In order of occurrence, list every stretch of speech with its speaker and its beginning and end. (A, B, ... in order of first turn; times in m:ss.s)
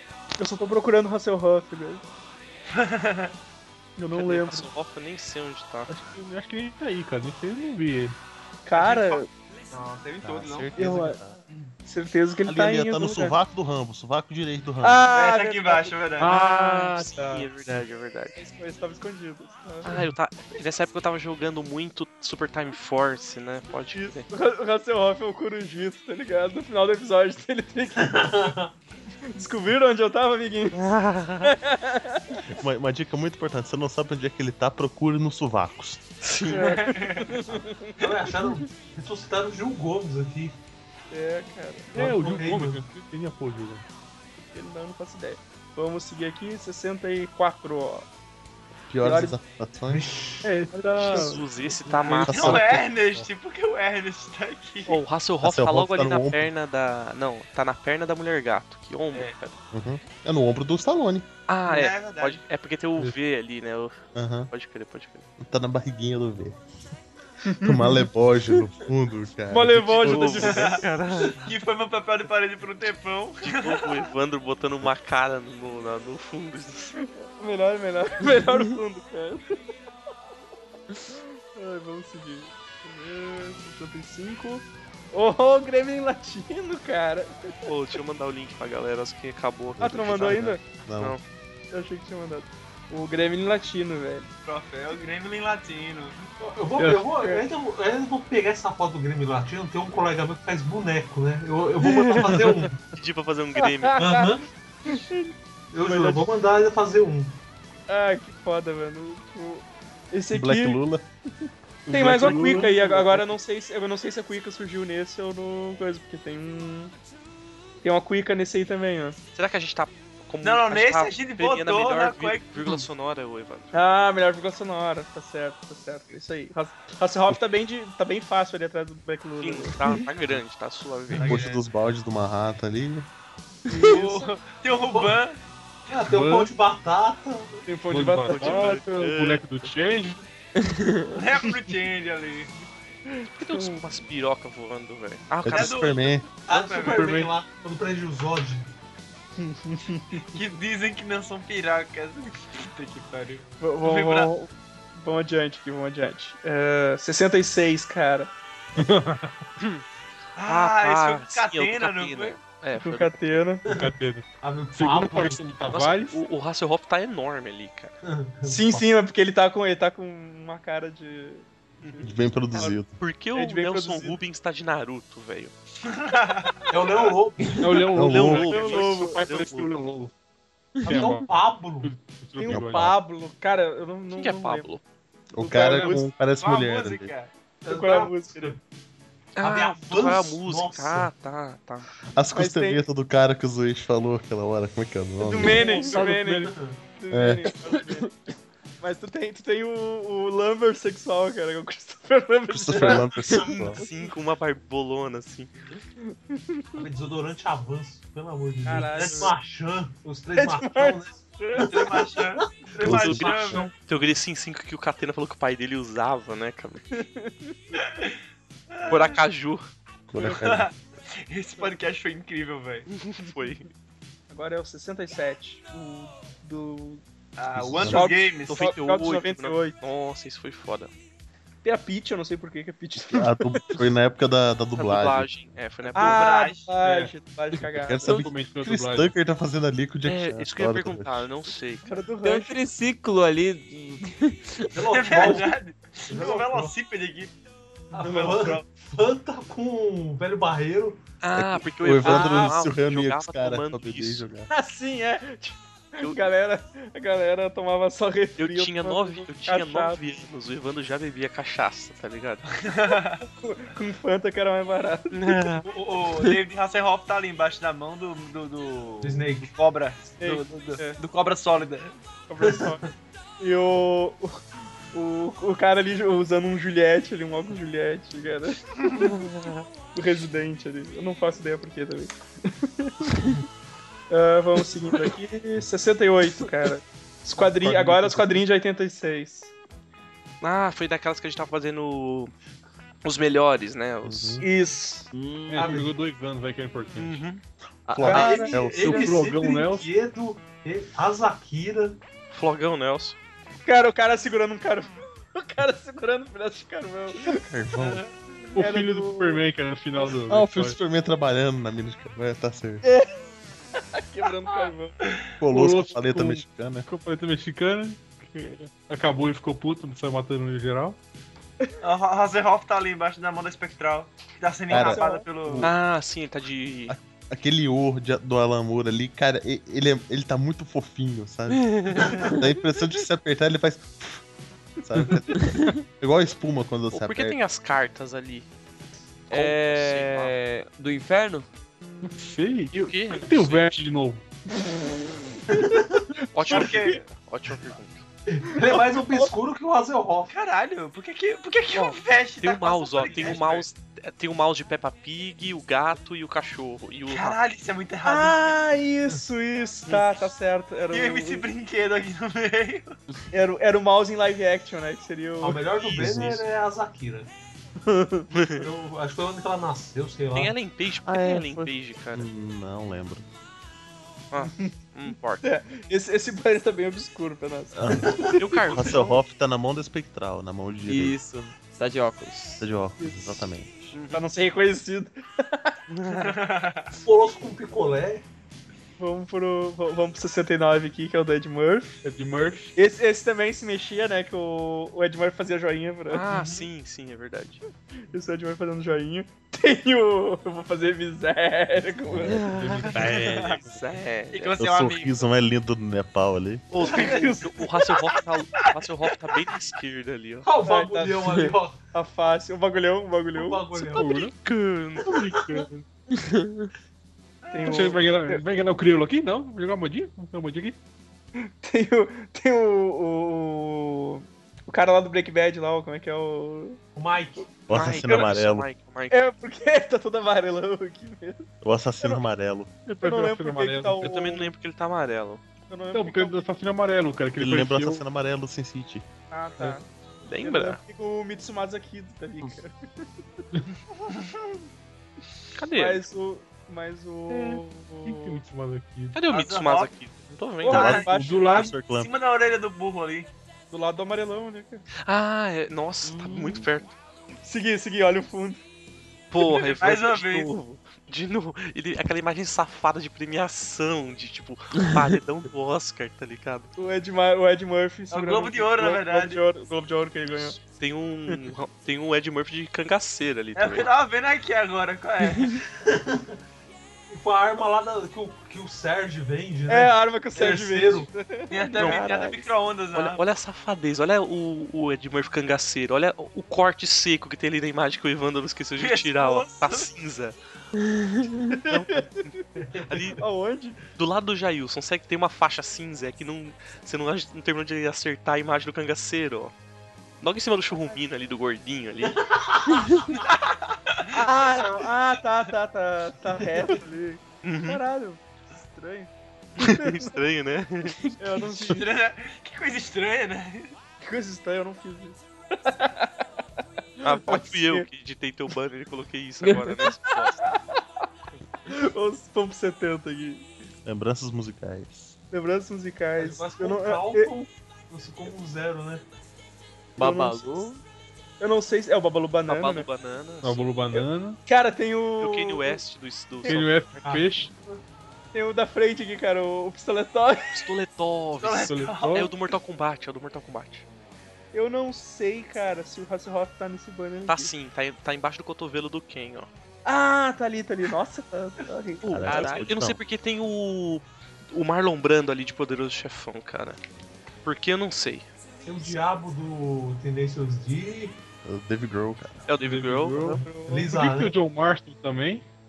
0:00.4-0:02.0 A
0:02.7-0:03.3 B
0:04.0-0:04.7 A
0:04.1-0:05.9 C
0:05.9-0:08.2 D
0:08.7-0:09.3 A
0:08.7-0:10.8 B
0:10.2-0:11.4 E
0:10.8-0:11.2 A
0:11.8-0:13.4 A
0:12.5-0:15.0 E
0:14.8-0:17.1 A
0:15.1-0:16.4 B
0:16.2-0:17.4 D
0:16.3-0:18.4 C
0:18.4-0:19.9 A
0:19.8-0:24.3 C
0:24.0-0:28.3 A
0:28.0-0:28.7 F
0:29.3-0:32.4 A
0:30.8-0:31.5 C
0:32.5-0:36.0 E
0:36.2-0:36.8 C
0:36.5-0:37.4 B
0:36.5-0:38.1 A
0:38.0-0:40.6 F
0:41.1-0:42.0 A
0:41.9-0:43.8 D
0:42.0-0:42.8 F
0:44.5-0:48.1 A
0:48.9-0:50.0 E
0:49.0-0:49.4 A
0:49.9-0:50.5 F
0:50.4-0:52.5 D
0:50.7-0:51.4 A
0:51.0-0:52.7 C
0:52.2-0:52.9 E
0:52.3-0:55.0 B
0:54.9-0:59.6 C
0:55.4-0:56.5 E
0:59.7-1:01.3 E
1:01.5-1:05.2 C
1:01.6-1:02.4 B
1:04.2-1:04.5 E
1:05.4-1:06.6 E
1:07.4-1:08.1 A
1:07.6-1:10.8 E
1:09.5-1:10.8 A
1:10.0-1:11.5 C
1:10.4-1:13.9 B
1:13.4-1:17.0 C
1:17.0-1:19.6 A
1:21.1-1:27.7 A
1:27.7-1:30.4 C
1:29.7-1:31.2 E
1:29.8-1:30.6 A
1:31.7-1:34.3 A
1:34.4-1:36.3 B
1:36.4-1:42.8 F
1:36.9-1:37.5 A
1:41.9-1:44.0 C
1:43.6-1:44.2 A
1:44.0-1:44.5 F
1:44.9-1:46.3 A
1:45.7-1:47.4 F
1:47.9-1:50.8 A
1:50.3-1:51.0 E
1:51.9-1:53.3 D
1:51.9-1:56.9 A
1:57.8-1:59.2 A
1:59.4-2:03.7 C
2:00.4-2:02.5 B
2:03.7-2:09.7 A
2:09.4-2:11.3 C
2:11.1-2:11.4 F
2:11.2-2:13.1 E
2:11.2-2:11.6 B
2:13.7-2:14.4 A
2:13.9-2:15.4 B
2:14.9-2:15.2 F
2:15.9-2:17.7 F
2:16.0-2:16.5 D
2:17.7-2:20.2 D
2:17.8-2:18.8 A
2:18.3-2:19.5 C
2:20.6-2:21.0 G
2:21.1-2:22.5 B
2:23.1-2:23.8 A
2:23.4-2:26.1 C
2:25.4-2:26.3 E
2:25.5-2:27.2 B
2:26.5-2:28.7 F
2:27.0-2:27.3 D
2:29.4-2:30.3 A
2:30.3-2:34.3 B
2:33.6-2:38.3 A
2:38.8-2:39.3 D
2:39.6-2:39.8 C
2:40.4-2:42.4 B
2:40.4-2:43.1 C
2:42.8-2:43.6 A
2:43.7-2:45.8 F
2:43.7-2:46.2 D
2:45.7-2:47.9 C
2:48.0-2:48.8 F
2:48.4-2:52.8 A
2:52.0-2:52.9 E
2:52.6-2:55.5 C
2:53.3-2:54.2 A
2:55.8-2:57.1 B
2:56.7-2:57.9 F
2:57.6-3:00.1 D
2:57.9-2:58.5 E
2:58.0-2:59.7 C
2:58.5-2:59.3 A
3:00.8-3:01.2 G
3:00.8-3:01.3 D
3:00.9-3:01.9 F
3:01.8-3:02.9 D
3:02.4-3:04.7 A
3:02.5-3:03.0 E
3:04.2-3:04.8 C
3:05.3-3:07.1 E
3:05.4-3:06.1 A
3:06.3-3:07.3 B
3:07.6-3:08.6 A
3:07.7-3:08.6 F
3:09.4-3:11.9 C
3:09.4-3:11.1 F
3:12.1-3:15.7 E
3:12.4-3:12.8 A
3:15.2-3:18.1 A
3:15.6-3:16.5 D
3:15.6-3:16.8 F
3:17.1-3:17.5 E
3:18.8-3:23.3 A
3:22.5-3:23.8 E
3:22.7-3:23.8 F
3:23.5-3:25.5 C
3:26.0-3:26.8 A
3:26.8-3:33.6 F
3:28.6-3:29.4 A
3:29.0-3:29.3 C
3:30.4-3:32.0 A
3:31.6-3:33.7 B
3:32.8-3:33.7 E
3:33.0-3:36.8 C
3:36.9-3:37.6 A
3:37.8-3:38.2 B
3:38.7-3:39.1 B
3:38.9-3:39.7 C
3:40.1-3:40.7 E
3:40.2-3:42.9 B
3:42.9-3:43.6 C
3:44.3-3:47.0 A
3:47.4-3:48.8 B
3:47.5-3:48.1 E
3:47.8-3:49.8 A
3:48.5-3:50.9 C
3:51.6-3:53.8 A
3:53.0-3:55.3 E
3:54.8-3:56.3 C
3:55.8-3:56.7 B
3:56.0-3:58.2 A
3:56.8-3:57.1 D
3:57.8-4:01.3 E
3:58.0-3:59.1 D
4:00.0-4:01.8 C
4:01.8-4:02.6 A
4:02.2-4:04.7 G
4:04.7-4:05.6 F
4:04.9-4:07.3 B
4:06.1-4:06.7 F
4:07.9-4:11.0 F
4:08.0-4:08.6 A
4:11.2-4:14.3 C
4:11.4-4:14.5 E
4:12.0-4:12.5 A
4:14.5-4:20.0 A
4:18.4-4:22.6 C
4:22.6-4:23.2 B
4:23.4-4:25.2 A
4:25.2-4:25.6 C
4:25.6-4:31.9 B
4:29.0-4:29.5 F
4:30.2-4:31.0 A
4:32.3-4:32.8 A
4:32.4-4:32.9 F
4:33.4-4:34.4 A
4:34.9-4:39.1 A
4:39.9-4:43.1 A
4:44.1-4:49.5 A
4:47.4-4:48.4 D
4:50.4-4:52.3 C
4:53.0-4:54.4 C
4:54.0-4:54.4 E
4:54.4-4:55.1 A
4:55.1-4:55.8 G
4:55.5-4:57.2 D
4:55.6-4:55.9 F
4:57.0-4:57.4 C
4:57.9-4:59.1 E
4:57.9-4:58.6 G
4:58.0-5:02.0 F
4:58.0-4:59.1 A
4:58.8-4:59.9 D
5:02.3-5:03.2 C
5:03.7-5:07.4 A
5:07.3-5:08.0 E
5:08.6-5:09.4 A
5:08.6-5:10.8 D
5:10.3-5:12.9 E
5:12.8-5:13.2 A
5:13.8-5:15.1 A
5:15.4-5:16.9 E
5:15.5-5:21.0 D
5:21.8-5:25.7 B
5:24.7-5:25.7 E
5:24.7-5:25.3 A
5:25.6-5:27.0 C
5:26.9-5:34.2 E
5:31.8-5:32.4 G
5:34.8-5:37.4 E
5:36.9-5:38.5 C
5:39.3-5:41.5 G
5:39.3-5:40.4 C
5:42.0-5:44.2 D
5:42.8-5:43.7 C
5:45.5-5:46.0 F
5:46.3-5:48.0 C
5:46.4-5:47.0 A
5:46.5-5:47.0 B
5:48.3-5:50.3 F
5:48.5-5:49.3 A
5:50.3-5:53.7 B
5:51.7-5:57.4 C
5:57.1-5:58.6 B
5:58.0-6:01.4 A
6:00.9-6:03.0 B
6:03.3-6:05.7 A
6:05.4-6:07.3 F
6:06.0-6:06.4 E
6:07.8-6:08.3 A
6:08.3-6:08.6 C
6:08.5-6:10.5 F
6:10.3-6:12.3 C
6:11.0-6:13.3 E
6:14.3-6:15.4 C
6:14.4-6:14.7 A
6:15.4-6:18.2 A
6:17.7-6:21.2 E
6:18.4-6:19.2 C
6:20.8-6:22.7 G
6:22.6-6:23.9 E
6:23.0-6:23.5 A
6:23.9-6:24.2 C
6:24.1-6:25.8 A
6:25.9-6:26.4 C
6:26.1-6:26.9 B
6:27.0-6:28.2 F
6:29.0-6:32.0 A
6:32.0-6:32.7 D
6:32.8-6:36.2 A
6:36.1-6:37.6 C
6:36.3-6:36.7 B
6:38.1-6:42.4 A
6:42.1-6:42.4 E
6:42.5-6:43.0 D
6:42.9-6:44.6 C
6:43.0-6:43.6 B
6:44.3-6:45.3 B
6:44.6-6:46.7 E
6:46.7-6:50.5 C
6:46.9-6:47.5 A
6:46.9-6:47.3 B
6:50.4-6:51.8 F
6:50.6-6:53.8 A
6:53.3-6:54.3 F
6:53.9-6:54.3 D
6:54.0-6:55.4 C
6:55.0-6:55.8 D
6:55.1-6:55.6 F
6:56.2-6:56.7 G
6:57.5-6:58.4 A
6:57.7-7:00.8 D
7:01.4-7:06.8 A
7:07.0-7:07.5 F
7:07.7-7:08.7 E
7:07.7-7:09.2 C
7:08.0-7:08.3 A
7:09.1-7:11.5 A
7:11.6-7:12.7 E
7:12.9-7:14.2 D
7:13.0-7:14.5 A
7:14.0-7:15.4 C
7:15.7-7:16.5 A
7:15.9-7:18.0 D
7:17.4-7:19.0 E
7:19.3-7:19.9 A
7:20.3-7:20.8 C
7:20.4-7:23.1 A
7:25.6-7:26.0 C
7:25.8-7:28.4 A
7:27.3-7:29.2 D
7:29.2-7:31.0 C
7:29.3-7:29.9 B
7:30.6-7:31.5 A
7:30.6-7:33.3 B
7:30.7-7:32.1 E
7:31.1-7:31.8 D
7:33.7-7:34.8 A
7:35.1-7:36.9 C
7:36.0-7:36.7 G
7:37.4-7:38.6 A
7:39.3-7:46.7 C
7:39.7-7:40.5 B
7:46.8-7:50.6 A
7:48.1-7:49.4 B
7:50.3-7:53.9 C
7:53.6-7:55.6 B
7:55.7-7:56.4 F
7:57.1-8:01.1 F
7:59.7-8:02.4 A
8:01.5-8:03.2 B
8:01.8-8:02.1 C
8:02.9-8:10.4 C
8:08.8-8:09.9 B
8:11.6-8:12.3 A
8:11.6-8:12.3 C
8:12.6-8:13.2 F
8:12.9-8:13.2 C
8:13.2-8:13.8 A
8:14.0-8:19.5 C
8:20.2-8:22.2 C
8:22.0-8:22.9 F
8:23.3-8:24.1 B
8:24.1-8:30.2 A
8:26.4-8:26.8 F
8:27.4-8:27.8 C
8:29.6-8:31.1 C
8:31.2-8:31.8 A
8:31.6-8:33.7 B
8:34.0-8:36.2 A
8:37.0-8:37.9 A
8:37.0-8:40.5 C
8:39.4-8:39.8 G
8:39.9-8:40.8 A
8:41.7-8:43.5 A
8:43.8-8:45.2 E
8:45.3-8:47.3 A
8:46.2-8:49.0 F
8:50.0-8:50.4 A
8:50.0-8:50.8 G
8:51.4-8:52.9 A
8:52.5-8:53.6 C
8:53.4-8:54.4 D
8:53.9-8:55.8 A
8:55.2-8:56.7 C
8:56.4-8:57.5 D
8:57.0-8:57.8 F
8:58.3-9:00.6 A
9:00.5-9:03.8 C
9:01.4-9:02.3 B
9:01.7-9:02.3 D
9:04.5-9:07.5 A
9:07.3-9:09.5 C
9:09.8-9:12.4 A
9:12.0-9:16.8 C
9:12.1-9:13.0 E
9:12.3-9:12.6 G
9:17.4-9:18.3 C
9:18.6-9:21.2 F
9:21.4-9:22.5 E
9:22.5-9:23.3 C
9:22.6-9:25.4 D
9:23.2-9:23.9 A
9:23.2-9:24.4 F